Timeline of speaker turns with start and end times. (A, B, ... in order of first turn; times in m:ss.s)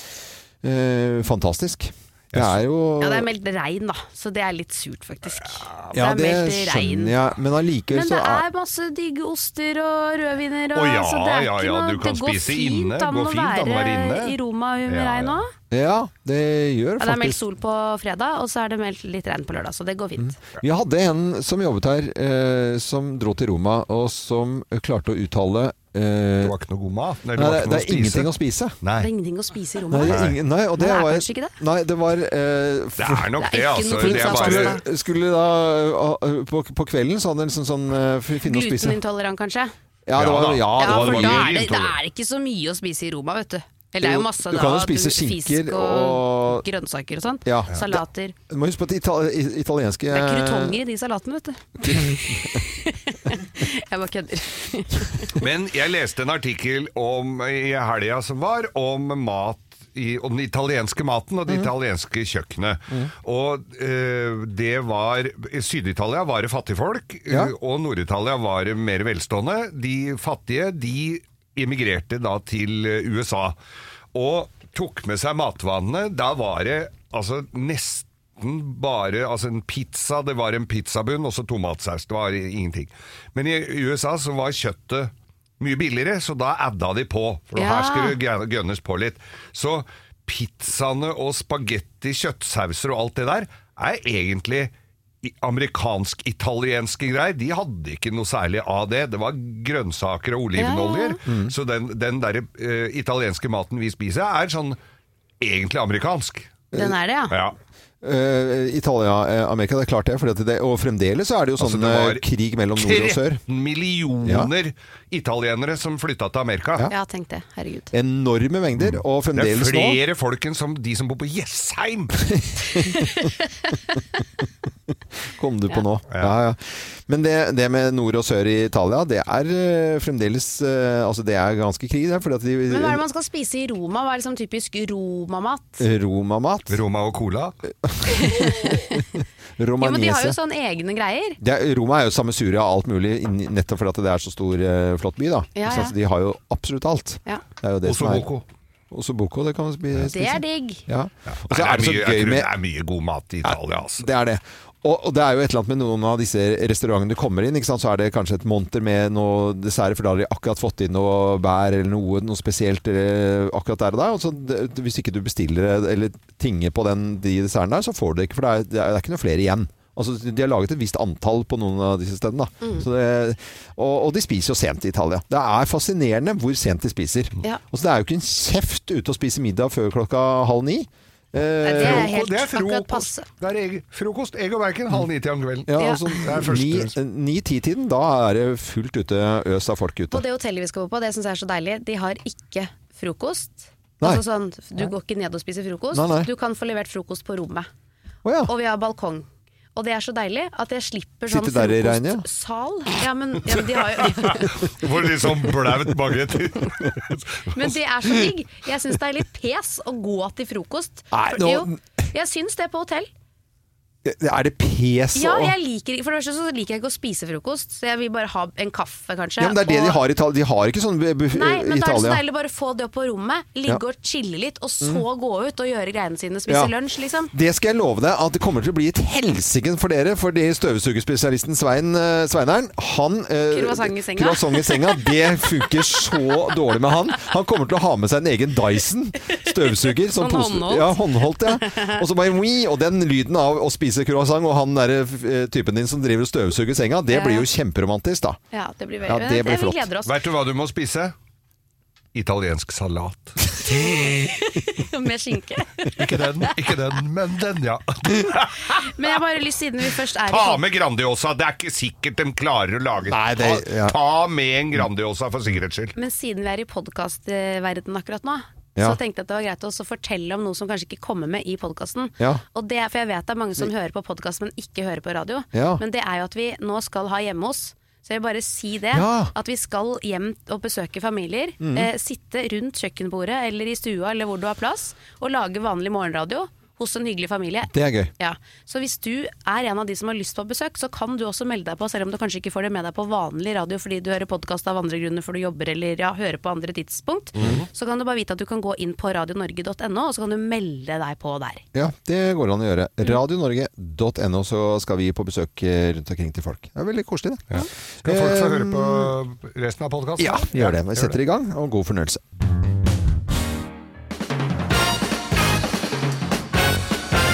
0:00.6-0:03.3 A
0:02.3-0:02.6 B
0:03.0-0:07.2 C
0:05.3-0:05.8 B
0:05.9-0:08.4 A
0:07.9-0:15.5 C
0:10.7-0:15.4 B
0:15.7-0:17.4 A
0:17.0-0:20.4 C
0:20.2-0:26.5 A
0:26.4-0:29.1 B
0:27.4-0:28.8 A
0:29.0-0:31.5 C
0:29.9-0:33.3 A
0:30.0-0:30.4 B
0:33.0-0:34.8 B
0:33.4-0:34.8 C
0:33.9-0:39.0 A
0:38.4-0:39.7 C
0:40.0-0:41.6 A
0:40.2-0:42.0 B
0:40.8-0:48.3 C
0:44.0-0:46.6 A
0:47.4-0:50.8 A
0:50.1-0:55.4 C
0:51.8-0:52.6 A
0:55.4-1:13.6 B
1:14.1-1:44.8 B
1:27.6-1:28.2 C
1:40.6-1:41.2 C
1:41.2-1:41.5 A
1:45.4-1:46.5 B
1:46.7-1:47.4 C
1:47.3-1:47.6 B
1:48.0-1:53.4 A
1:51.6-1:56.9 B
1:54.2-1:54.5 A
1:56.9-1:57.9 C
1:57.9-2:00.0 A
1:58.8-2:02.3 B
2:02.4-2:03.3 A
2:05.4-2:13.0 A
2:12.7-2:15.8 C
2:15.8-2:16.8 A
2:16.7-2:17.6 B
2:17.8-2:19.0 A
2:18.1-2:19.0 C
2:19.6-2:20.4 A
2:19.8-2:21.4 C
2:21.4-2:28.3 A
2:25.6-2:25.9 C
2:27.8-2:28.4 B
2:28.9-2:32.5 A
2:30.1-2:30.8 C
2:31.3-2:34.1 B
2:33.4-3:02.1 A
3:01.6-3:03.3 C
3:01.8-3:06.9 B
3:05.7-3:10.2 A
3:05.8-3:06.2 C
3:10.1-3:17.7 C
3:15.9-3:16.3 A
3:18.2-3:18.5 A
3:18.5-3:24.8 C
3:21.3-3:22.2 A
3:24.0-3:27.7 B
3:27.5-3:33.1 C
3:31.1-3:31.8 A
3:34.0-3:35.5 A
3:35.1-3:40.0 C
3:39.4-3:42.2 A
3:41.3-3:47.3 C
3:46.5-3:46.7 A
3:47.3-4:08.4 A
3:53.5-3:56.2 C
3:59.4-4:02.0 C
4:07.1-4:07.5 C
4:08.5-4:10.2 C
4:09.0-4:09.9 A
4:10.0-4:11.1 B
4:12.1-4:13.5 B
4:13.7-4:16.5 C
4:15.9-4:19.1 B
4:18.7-4:20.6 C
4:20.2-4:25.9 B
4:23.1-4:24.0 A
4:25.9-5:01.6 C
4:35.5-4:35.8 A
4:38.9-4:39.3 A
4:41.6-4:41.9 A
4:47.7-4:48.1 A
4:57.4-4:57.7 B
5:01.7-5:07.5 A
5:07.5-5:11.2 B
5:08.0-5:09.1 A
5:10.2-5:12.2 A